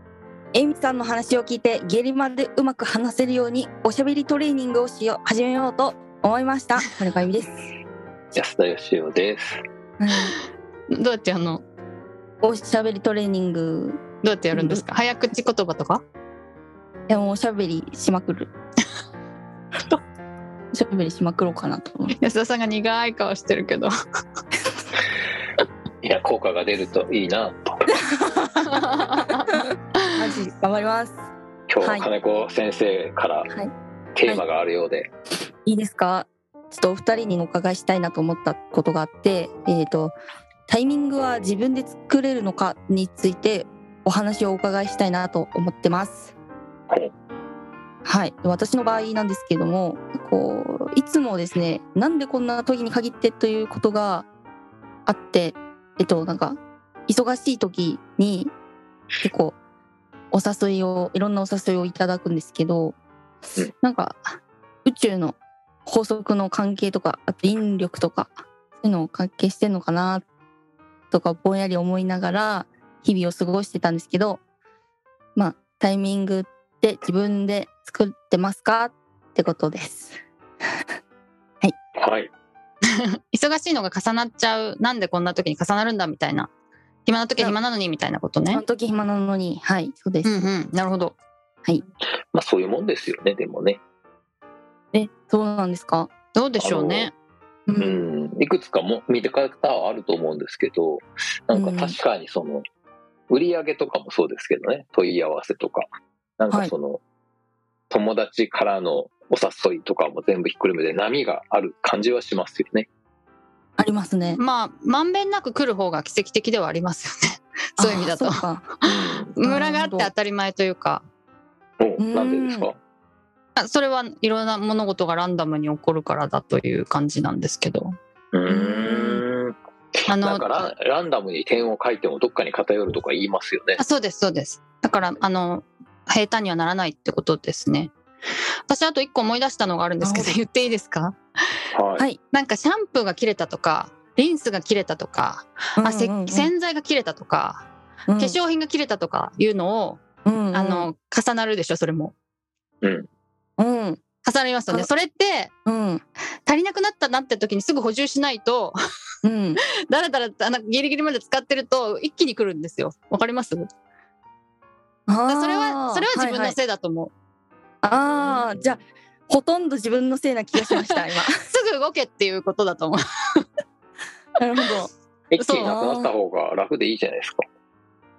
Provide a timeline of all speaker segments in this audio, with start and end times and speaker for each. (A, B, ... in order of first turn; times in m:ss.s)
0:00.5-0:07.7 A
0:08.3-0:09.6 B
0:10.0-0:10.4 A
0:10.9-0:11.6 C
0:12.4-0:14.0 A
0:14.2-0:16.0 C
0:14.5-0:14.8 A
0:17.1-0:18.5 A
0:20.7-0:22.2 A
0:22.2-0:23.9 C
0:26.0-0:28.0 B
0:28.1-0:28.8 A
0:28.7-0:30.1 C
0:30.2-0:31.2 A
0:31.7-0:33.5 B
0:31.8-0:32.1 A
0:34.2-0:35.1 B
0:35.6-0:40.2 A
0:40.7-0:46.4 A
0:48.0-0:54.3 A
0:55.1-0:58.5 A
0:59.2-0:59.6 A
1:00.3-1:03.0 A
1:03.8-1:10.3 A
1:11.1-1:14.4 A
1:15.4-1:20.2 A
1:22.0-1:22.3 B
1:23.3-1:26.5 C
1:27.0-1:28.6 C
1:28.5-1:30.5 A
1:30.2-1:31.2 C
1:32.3-1:33.8 B
1:34.9-1:36.1 A
1:36.3-1:37.1 C
1:36.6-1:37.1 B
1:37.7-1:38.0 A
1:37.8-1:42.6 B
1:41.5-1:42.0 A
1:43.3-1:45.9 B
1:46.4-1:47.0 B
1:47.9-1:52.9 B
1:53.8-1:54.4 A
1:54.4-1:58.4 C
1:57.8-1:58.7 A
1:58.8-1:59.4 B
1:59.3-2:01.0 C
1:59.4-2:00.1 A
2:01.8-2:02.8 B
2:02.0-2:02.7 A
2:03.6-2:08.0 C
2:08.3-2:13.8 B
2:08.5-2:09.2 C
2:10.1-2:10.7 C
2:13.8-2:17.9 C
2:18.7-2:21.2 C
2:20.0-2:20.4 A
2:21.7-2:22.1 B
2:22.3-2:30.0 C
2:25.8-2:26.5 A
2:28.1-2:28.4 A
2:30.2-2:30.9 A
2:30.5-2:32.1 C
2:32.8-2:33.1 B
2:33.6-2:34.0 A
2:34.2-2:35.5 C
2:35.7-2:36.0 A
2:36.4-2:38.8 C
2:39.2-2:39.6 A
2:39.9-2:43.7 C
2:45.1-2:46.6 A
2:45.3-2:47.1 C
2:47.8-2:51.4 A
2:50.7-2:53.5 C
2:54.4-2:54.9 A
2:55.3-2:57.4 B
2:55.4-2:55.7 C
2:55.6-2:56.1 A